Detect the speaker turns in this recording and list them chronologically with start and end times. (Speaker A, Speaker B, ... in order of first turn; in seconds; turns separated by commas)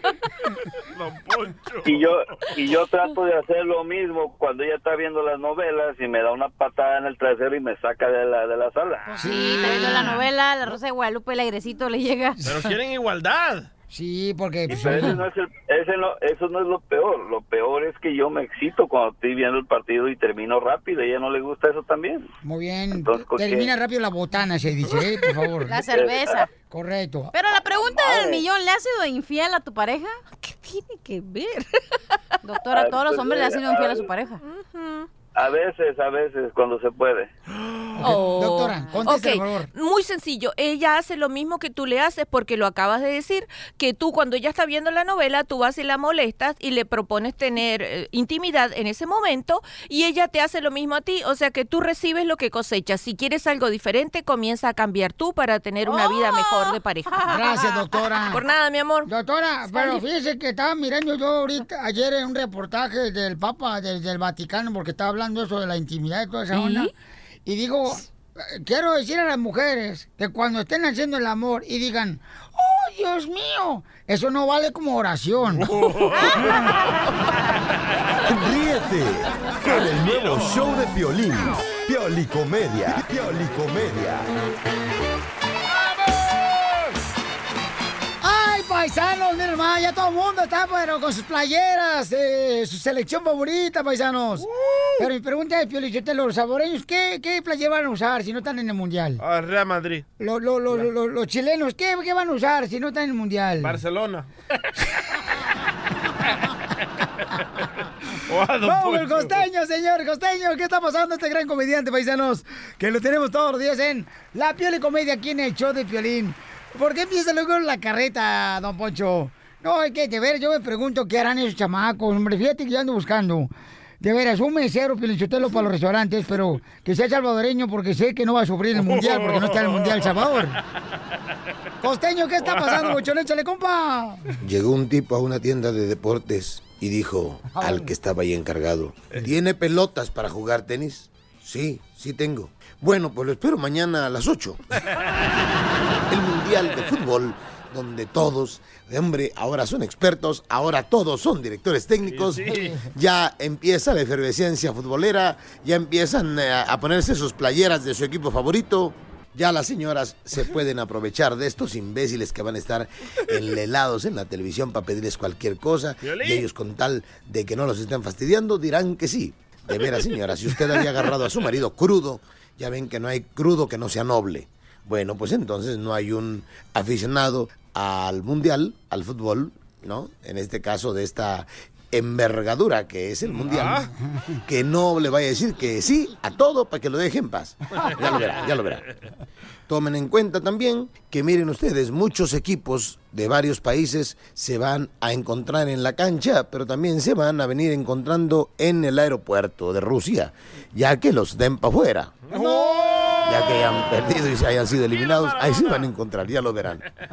Speaker A: 0.9-2.1, Speaker B: 1.8-9.8, Speaker C: 9.1-12.6, Speaker D: 9.2-10.2, Speaker A: 12.4-13.7, Speaker D: 13.9-15.2, Speaker B: 14.7-22.3, Speaker D: 22.4-25.8, Speaker B: 22.9-23.7, Speaker C: 25.6-26.5, Speaker B: 25.8-26.4, Speaker D: 26.7-27.3, Speaker C: 27.3-31.7, Speaker B: 28.0-28.4, Speaker C: 32.4-34.4, Speaker B: 32.7-34.1, Speaker E: 34.4-35.1, Speaker B: 35.3-37.3, Speaker A: 37.6-37.9, Speaker D: 38.0-39.7, Speaker E: 38.0-57.4, Speaker C: 55.8-57.7, Speaker D: 57.3-58.4, Speaker E: 58.3-59.1, Speaker D: 59.0-66.9, Speaker C: 59.7-60.0, Speaker C: 66.5-66.9, Speaker D: 67.5-75.7, Speaker A: 75.6-76.8, Speaker F: 78.2-84.3, Speaker A: 79.7-80.6, Speaker D: 88.2-99.2, Speaker A: 94.6-94.9, Speaker A: 99.2-100.0, Speaker D: 100.2-103.8, Speaker A: 103.6-104.6, Speaker A: 108.3-109.4, Speaker D: 108.6-123.5, Speaker D: 124.0-130.6, Speaker A: 128.8-130.1, Speaker D: 131.8-134.3, Speaker A: 132.4-133.0, Speaker G: 134.4-144.6, Speaker D: 137.5-137.9, Speaker G: 146.1-183.8, Speaker A: 152.1-152.7, Speaker D: 152.5-152.8, Speaker A: 166.0-166.4, Speaker A: 169.8-170.0, Speaker D: 183.4-184.4, Speaker A: 183.4-183.9, Speaker G: 184.4-188.8, Speaker A: 187.8-188.6, Speaker G: 189.7-202.2, Speaker A: 202.3-203.3, Speaker D: 202.3-203.3, Speaker G: 203.2-206.8, Speaker A: 204.9-205.9